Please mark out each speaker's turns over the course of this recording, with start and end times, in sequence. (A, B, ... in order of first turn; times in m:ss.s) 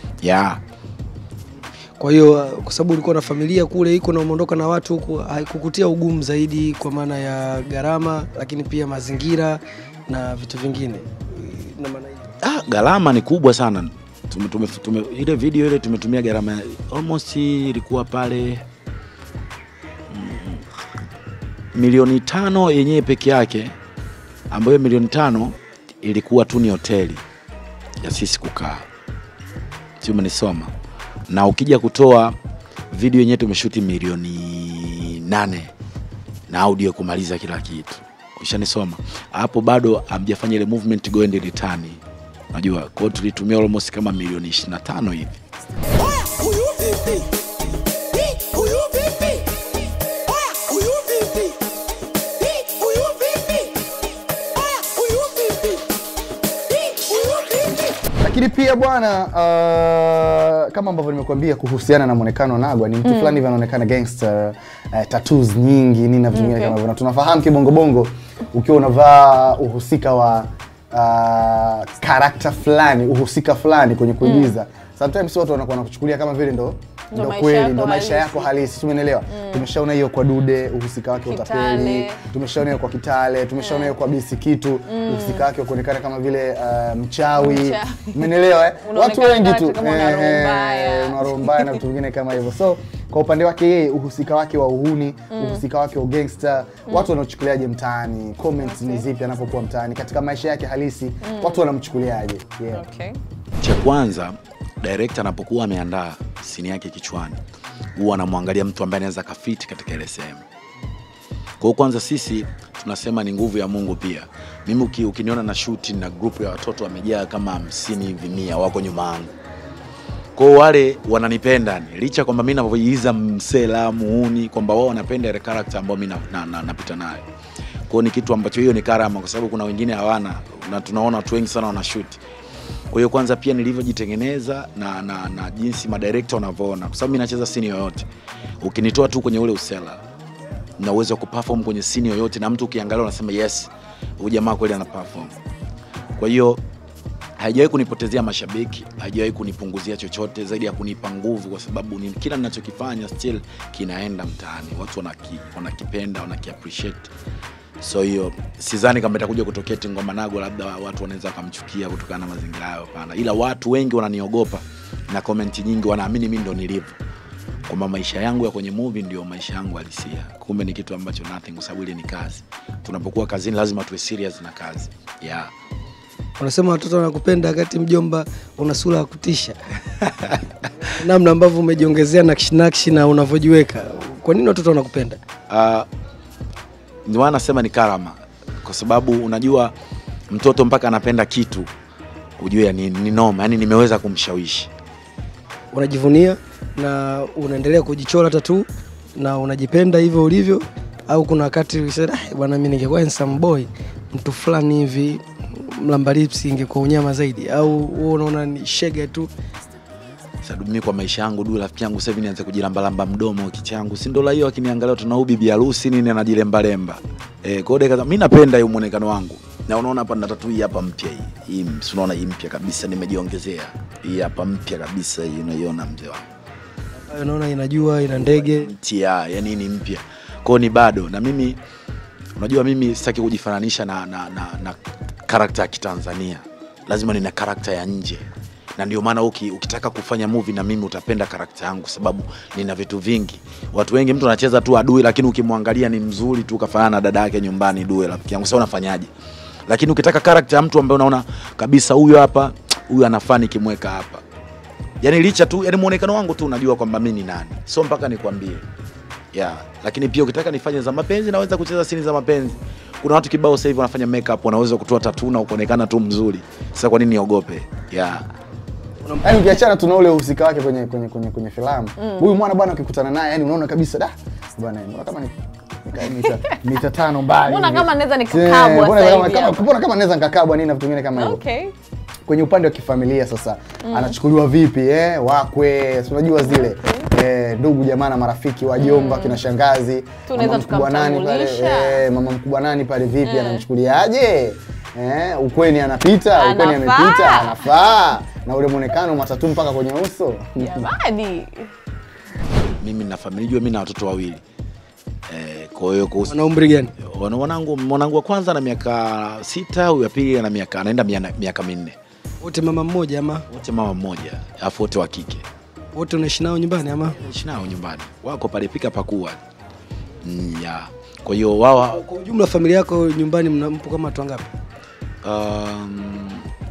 0:00.2-0:00.6 A
0:02.0-0:12.2 B
0:12.4-0:18.6 A
0:20.1-0:20.6 A
0:21.8-0:23.7 A
0:24.5-0:27.2 A
0:28.0-0:28.8 A
0:30.0-0:30.7 A
0:31.3-0:32.4 A
0:32.9-0:35.7 A
0:36.5-0:42.0 A
0:42.5-0:45.4 A
0:46.0-0:47.3 B
0:48.2-0:49.4 B
0:50.4-0:51.6 B
0:52.5-0:53.6 B
0:54.8-0:55.8 B
0:57.1-0:57.6 B
0:58.2-1:42.8 C
1:03.0-1:03.4 D
1:06.3-1:06.8 D
1:14.2-1:14.5 D
1:17.1-1:18.5 D
1:19.3-1:19.7 D
1:21.2-1:22.2 D
1:23.6-1:23.9 D
1:24.9-1:25.4 D
1:27.4-1:28.2 D
1:28.8-1:31.8 D
1:35.3-1:35.6 D
1:38.6-1:39.0 D
1:41.2-1:41.6 D
1:42.7-1:43.2 D
1:43.6-1:47.4 A
1:48.0-1:50.4 A
1:51.6-1:59.3 A
2:00.4-2:07.2 A
2:07.9-2:12.2 A
2:12.9-2:18.1 A
2:18.6-2:20.0 A
2:20.8-2:25.4 A
2:26.2-2:26.6 A
2:27.4-2:37.1 A
2:37.8-2:47.0 A
2:47.7-2:55.5 A
2:56.4-2:59.6 B
3:00.8-3:05.2 B
3:05.5-3:05.9 A
3:07.1-3:09.8 A
3:10.3-3:11.7 A
3:12.4-3:14.7 A
3:15.7-3:29.3 B
3:30.4-3:46.2 A
3:47.1-3:48.7 B
3:48.2-3:51.6 A
3:52.4-4:09.1 A
4:09.7-4:14.2 A
4:15.0-4:18.7 A
4:19.3-4:28.3 A
4:29.0-4:29.4 B
4:29.2-4:35.3 C
4:35.8-4:41.4 C
4:37.4-4:39.7 D
4:41.2-4:41.7 D
4:42.3-5:00.9 C
4:43.8-4:44.2 D
4:46.5-4:47.1 D
4:48.8-4:49.4 D
4:50.3-4:52.0 D
4:53.2-4:53.6 D
4:56.4-4:57.6 D
5:00.6-5:01.7 D
5:02.8-5:04.4 A
5:05.3-5:06.4 A
5:06.3-5:06.9 B
5:07.0-5:12.0 A
5:12.4-5:13.4 B
5:13.5-5:15.4 A
5:16.0-5:17.2 B
5:17.2-5:19.4 A
5:20.2-5:22.0 A
5:21.8-5:24.5 B
5:25.2-5:26.5 A